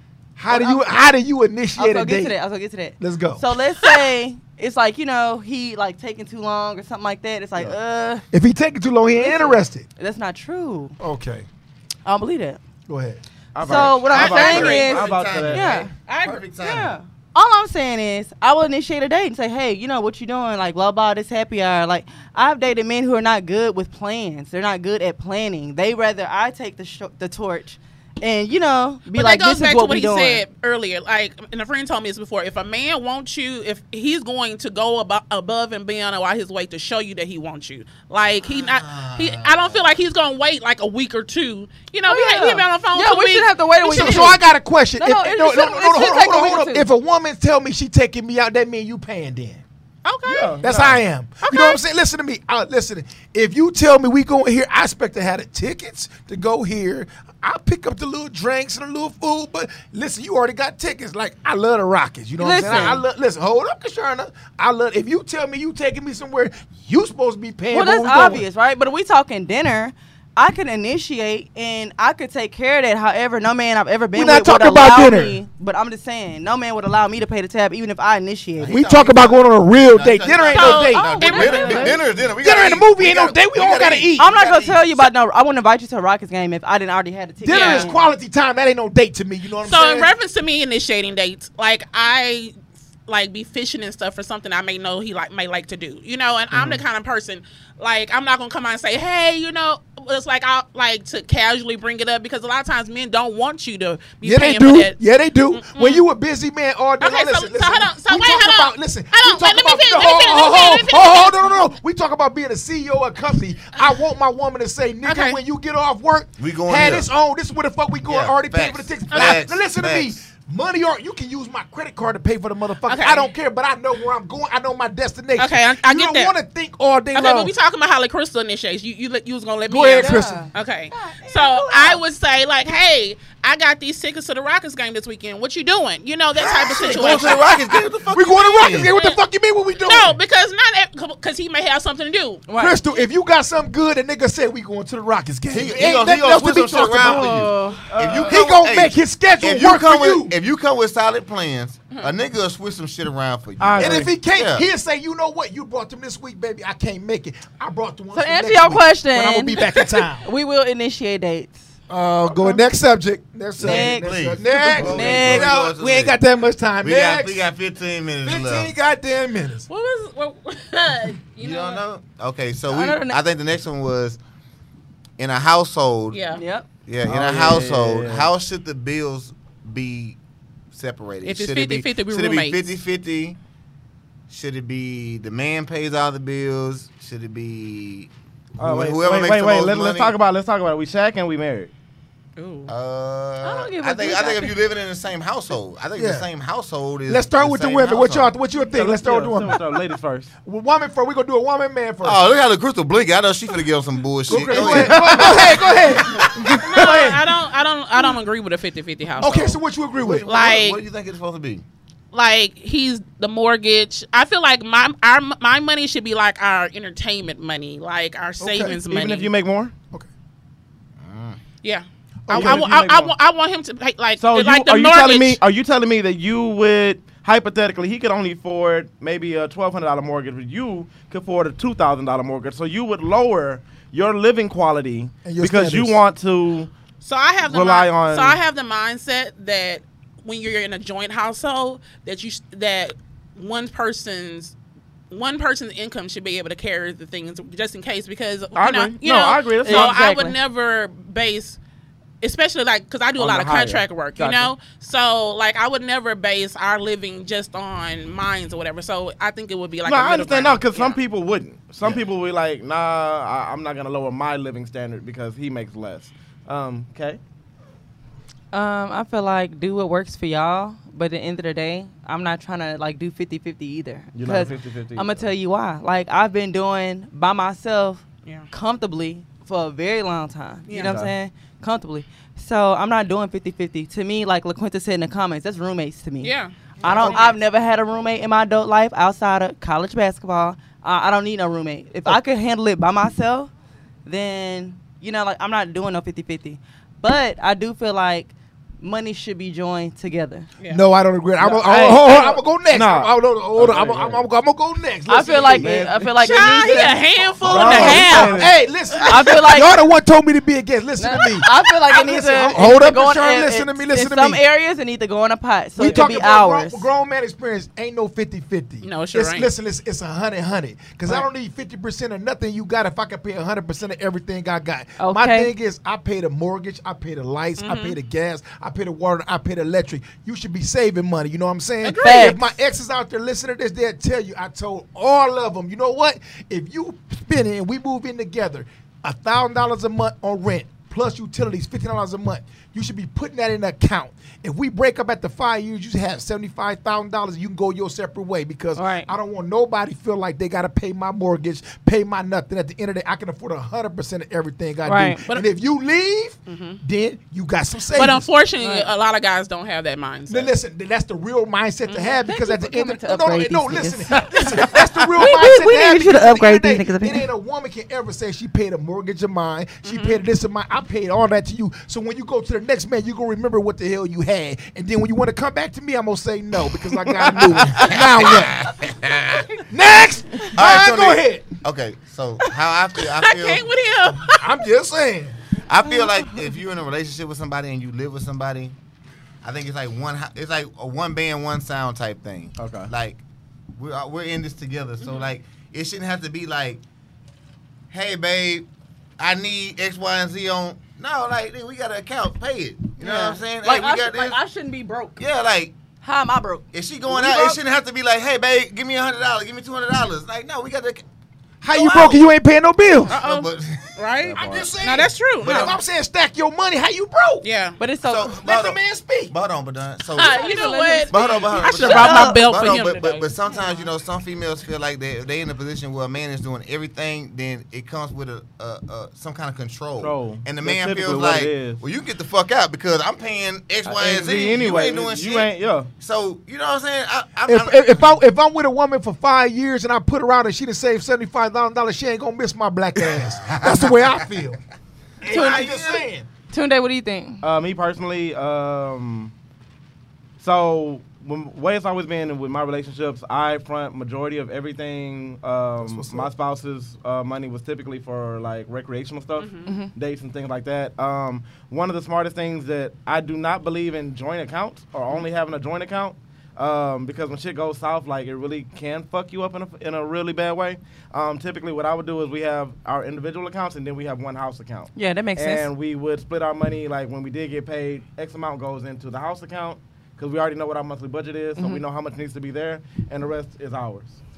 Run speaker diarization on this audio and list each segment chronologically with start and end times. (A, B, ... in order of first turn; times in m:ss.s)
0:00.4-0:02.4 A
0:00.5-0:00.8 B
0:01.8-0:08.2 B
0:03.0-0:03.5 A
0:08.3-0:09.9 A
0:09.2-0:11.0 B
0:11.0-0:11.5 A
0:12.1-0:12.6 B
0:12.9-0:13.2 A
0:13.6-0:15.9 C
0:13.6-0:15.9 B
0:14.0-0:17.0 D
0:14.1-0:15.1 E
0:16.1-0:16.4 E
0:16.6-0:30.4 B
0:29.1-0:44.4 E
0:38.5-0:39.9 D
0:42.1-0:44.4 B
0:43.9-0:49.6 A
0:45.0-0:46.9 B
0:50.0-0:50.6 E
0:50.2-0:51.0 C
0:50.6-1:08.4 A
0:51.4-0:51.8 E
1:02.4-1:03.0 B
1:07.7-1:18.8 B
1:14.1-1:15.4 A
1:18.6-1:25.0 D
1:18.7-1:24.3 A
1:20.5-1:22.0 E
1:21.0-1:22.0 B
1:24.2-1:28.0 B
1:27.4-1:30.1 A
1:27.5-1:27.9 E
1:29.6-1:32.5 E
1:33.1-1:45.0 E
1:44.2-2:07.5 A
1:45.5-1:46.0 E
1:47.0-1:51.5 E
1:55.0-1:55.4 E
1:56.4-1:57.1 D
1:58.1-2:00.2 D
1:59.1-1:59.4 E
2:02.9-2:03.3 E
2:05.4-2:06.4 E
2:07.1-2:17.6 E
2:09.7-2:10.5 A
2:10.0-2:12.0 B
2:16.4-2:18.9 D
2:16.5-2:20.2 A
2:18.7-2:19.2 E
2:19.8-2:22.4 E
2:22.5-2:22.8 B
2:22.6-2:27.5 A
2:25.5-2:34.7 D
2:27.1-2:27.8 B
2:27.9-2:28.4 C
2:28.3-2:30.4 A
2:33.6-2:34.2 C
2:33.8-2:40.3 A
2:38.1-2:41.6 B
2:41.9-2:47.5 A
2:43.6-2:46.2 D
2:43.6-2:45.5 B
2:46.8-2:48.7 D
2:48.2-2:49.7 A
2:49.7-2:51.8 E
2:51.4-2:54.2 D
2:52.7-2:53.2 B
2:55.2-2:56.2 D
2:56.1-2:56.4 E
2:56.3-2:56.7 B
2:56.9-3:00.2 D
2:57.0-2:58.3 C
3:00.7-3:03.4 D
3:01.2-3:02.8 E
3:04.3-3:10.2 D
3:08.6-3:11.7 C
3:12.4-3:12.7 E
3:12.7-3:18.3 D
3:13.4-3:14.6 B
3:16.0-3:16.3 A
3:17.1-3:19.6 A
3:18.7-3:20.3 C
3:20.4-3:22.2 A
3:22.0-3:26.7 D
3:24.3-3:27.3 A
3:24.5-3:25.6 C
3:26.6-3:29.6 E
3:29.2-3:30.3 A
3:30.0-3:31.6 D
3:30.3-3:30.8 E
3:32.1-3:39.3 E
3:38.4-3:38.8 A
3:38.8-3:39.7 C
3:41.0-3:41.4 D
3:41.6-3:45.4 E
3:42.3-3:42.7 A
3:42.3-3:43.1 C
3:44.2-3:56.7 C
3:55.2-3:56.0 A
3:57.0-4:04.5 E
3:57.4-3:58.4 C
4:05.1-4:11.6 E
4:08.6-4:10.0 C
4:09.6-4:10.4 B
4:12.2-4:21.0 E
4:13.2-4:14.5 C
4:19.8-4:27.2 C
4:28.5-4:46.3 B
4:34.1-4:35.3 C
4:40.7-4:41.0 E
4:40.8-4:41.1 C
4:46.2-4:47.4 E
4:46.8-4:47.3 A
4:46.8-4:53.5 B
4:54.0-5:00.5 B
5:00.7-5:14.4 A
5:01.4-5:04.2 C
5:05.1-5:07.0 B
5:05.6-5:06.1 C
5:06.2-5:08.5 E
5:07.5-5:08.6 C
5:07.7-5:08.2 B
5:09.0-5:09.7 B
5:11.0-5:16.9 B
5:15.8-5:58.3 A
5:18.8-5:19.5 E
5:25.0-5:25.5 B
5:27.6-5:28.0 E
5:31.8-5:32.4 E
5:32.0-5:32.4 B
5:48.8-5:49.1 B
5:54.9-5:55.2 B
5:56.5-5:56.8 E
5:57.9-6:00.5 E
5:58.6-5:58.9 B
6:00.3-6:18.7 A
6:02.0-6:07.3 B
6:09.8-6:10.2 E
6:17.2-6:17.9 C
6:17.9-6:19.5 D
6:19.6-6:21.5 A
6:20.6-6:23.7 D
6:23.2-6:24.5 E
6:24.3-6:25.4 A
6:25.7-6:28.8 D
6:29.4-6:33.2 D
6:32.6-6:32.9 C
6:33.8-6:36.8 D
6:35.0-6:35.3 E
6:37.9-6:38.7 D
6:39.2-6:44.4 D
6:43.0-6:45.2 B
6:45.2-6:45.7 D
6:46.0-6:46.6 B
6:46.7-6:51.0 D
6:47.1-6:47.6 A
6:51.6-6:52.2 D
6:51.6-6:53.2 A
6:53.1-6:54.8 D
6:53.1-6:55.8 E
6:54.4-6:57.5 A
6:55.4-6:55.8 D
6:57.4-6:57.8 E
6:57.8-6:58.4 B
6:58.0-7:18.2 D
6:58.4-6:59.3 A
7:00.2-7:02.5 B
7:00.2-7:03.9 E
7:10.0-7:11.8 C
7:13.8-7:15.9 C
7:17.5-7:24.6 A
7:23.0-7:24.3 D
7:25.2-7:26.3 A
7:25.2-7:26.1 D
7:25.3-7:25.7 B
7:26.5-7:27.4 B
7:27.4-7:29.3 C
7:30.4-8:04.1 C
7:35.8-7:36.3 A
7:39.4-7:39.7 E
7:39.6-7:39.9 B
7:55.0-7:55.7 B
8:01.6-8:01.8 B